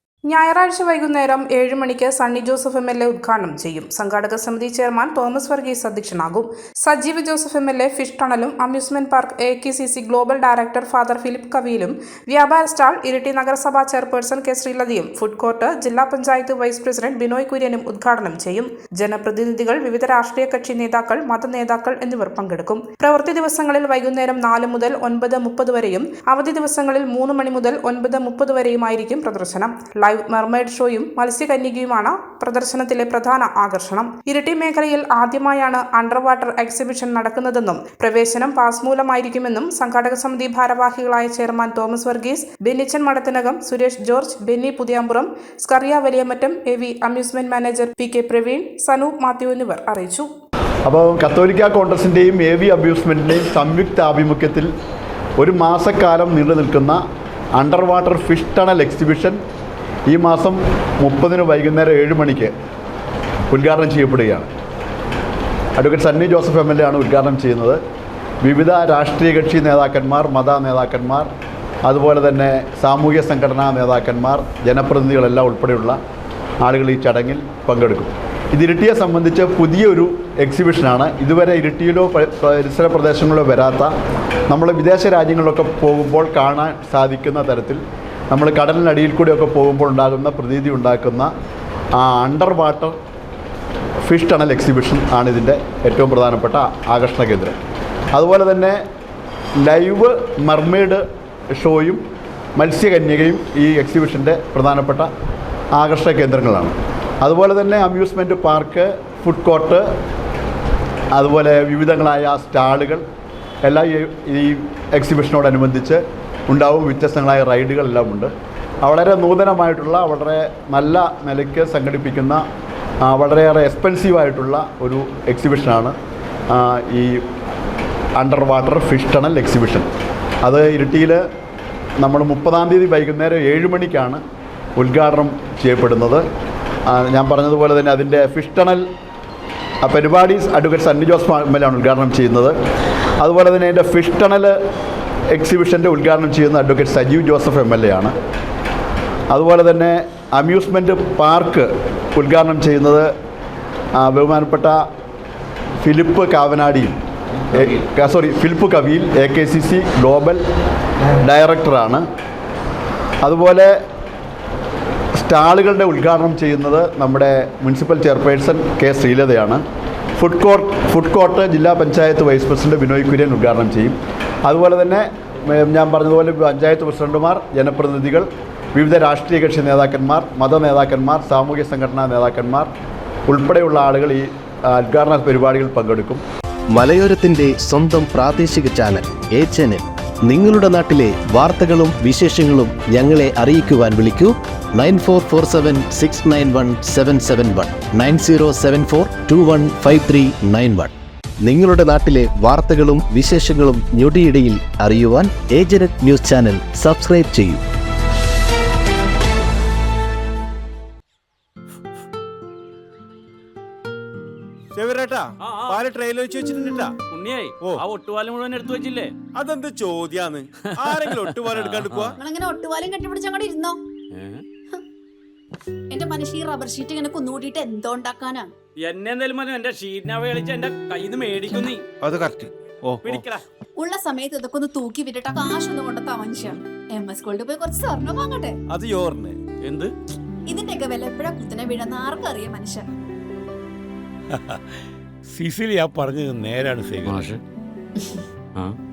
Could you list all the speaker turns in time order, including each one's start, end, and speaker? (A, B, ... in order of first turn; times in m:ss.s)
0:00.3-0:50.3 A
0:50.9-0:54.7 B
0:55.4-0:57.0 B
0:57.6-0:59.4 B
1:00.1-1:02.5 B
1:03.5-1:04.5 B
1:05.8-1:07.8 B
1:08.4-1:11.3 B
1:11.9-1:16.0 B
1:16.6-1:23.9 B
1:24.5-1:31.3 B
1:32.0-1:33.0 B
1:34.0-1:37.6 B
1:38.1-1:38.8 B
1:39.6-1:41.0 B
1:41.6-1:42.0 B
1:42.6-1:45.1 B
1:45.8-1:49.8 B
1:51.1-1:53.0 B
1:53.6-1:58.3 B
1:58.8-2:02.4 B
2:03.0-2:05.9 B
2:06.5-2:07.2 B
2:08.2-2:09.9 B
2:10.4-2:11.2 B
2:12.0-2:14.2 B
2:14.8-2:16.2 B
2:16.9-2:18.8 B
2:19.8-2:22.5 B
2:23.2-2:24.5 B
2:25.3-2:28.1 B
2:29.3-2:33.1 B
2:34.0-2:34.8 B
2:35.8-2:37.0 B
2:37.5-2:40.4 B
2:41.2-2:42.0 B
2:43.2-2:43.8 B
2:45.2-2:49.6 B
2:50.2-3:02.7 B
3:03.3-3:06.2 B
3:06.7-3:27.6 C
3:34.7-3:37.0 D
3:35.5-3:35.8 E
3:37.1-3:39.1 E
3:37.6-3:37.8 D
3:39.3-3:42.2 D
3:40.9-3:42.1 E
3:42.2-3:43.8 F
3:45.9-3:48.5 F
3:48.8-3:51.8 E
3:51.6-3:53.3 D
3:53.0-3:53.4 E
3:53.8-3:58.6 F
3:58.7-3:59.4 D
3:59.7-3:59.9 E
4:00.5-4:02.8 F
4:04.3-4:04.6 G
4:05.3-4:07.4 G
4:07.0-4:07.4 E